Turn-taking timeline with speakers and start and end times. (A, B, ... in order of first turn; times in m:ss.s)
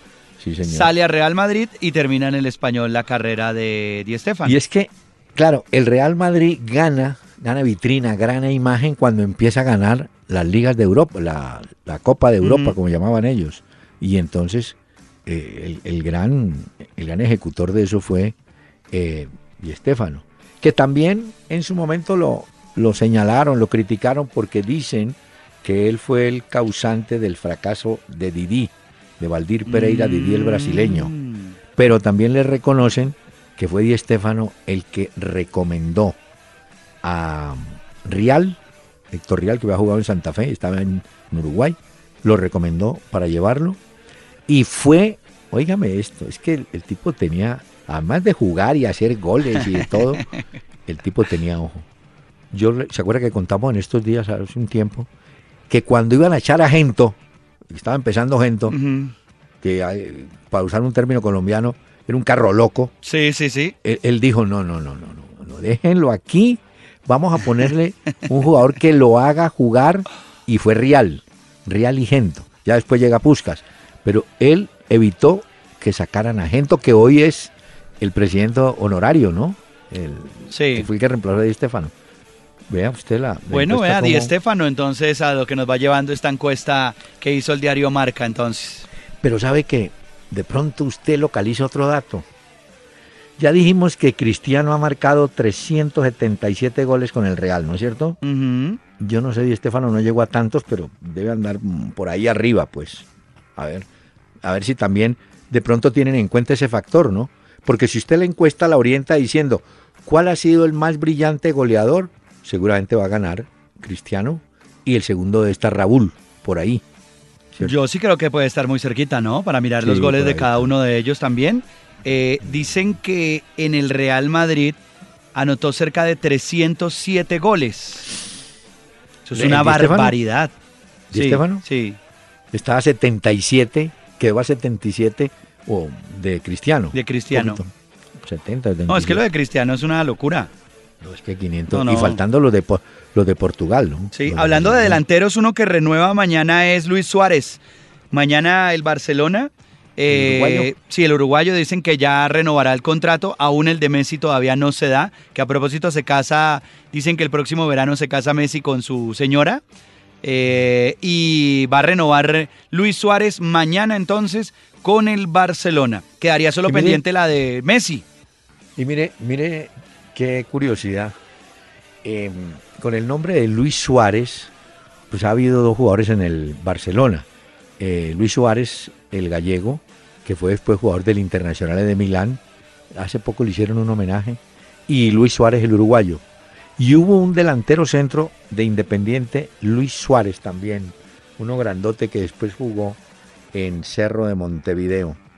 0:00.4-0:00.9 A
0:00.6-0:04.6 B
0:04.4-0:18.3 A
0:12.4-0:12.8 B
0:18.9-0:31.1 A
0:29.6-0:31.5 B
0:31.8-0:36.2 A
0:37.0-0:38.6 A
0:39.1-0:43.8 A
0:44.5-0:50.2 A
0:49.6-0:50.3 B
0:50.8-0:51.9 A
0:52.5-0:55.1 A
0:55.7-0:57.2 A
0:57.7-0:58.8 A
0:58.7-0:59.1 B
0:59.6-1:02.9 A
1:03.0-1:03.7 B
1:03.8-1:21.9 A
1:20.5-1:20.9 B
1:22.7-1:24.3 A
1:23.5-1:28.9 B
1:29.2-1:32.3 A
1:33.4-1:38.2 A
1:38.2-1:38.8 B
1:39.0-1:43.9 A
1:44.4-1:56.8 A
1:57.6-2:04.8 B
1:59.8-2:00.7 A
2:05.3-2:08.1 B
2:09.2-2:10.5 B
2:09.3-2:10.2 A
2:11.1-2:11.6 A
2:11.1-2:12.0 B
2:12.5-2:19.2 A
2:16.9-2:17.6 B
2:18.9-2:20.5 B
2:21.0-2:25.0 A
2:21.7-2:22.2 B
2:24.1-2:27.6 B
2:28.1-2:39.6 B
2:30.1-2:30.7 A
2:40.2-2:48.0 B
2:46.6-2:47.0 A
2:48.8-2:51.1 A
2:52.0-2:54.5 A
2:55.1-2:57.3 A
2:57.8-3:02.4 A
3:02.9-3:06.2 A
3:06.8-3:13.0 A
3:13.5-3:15.2 A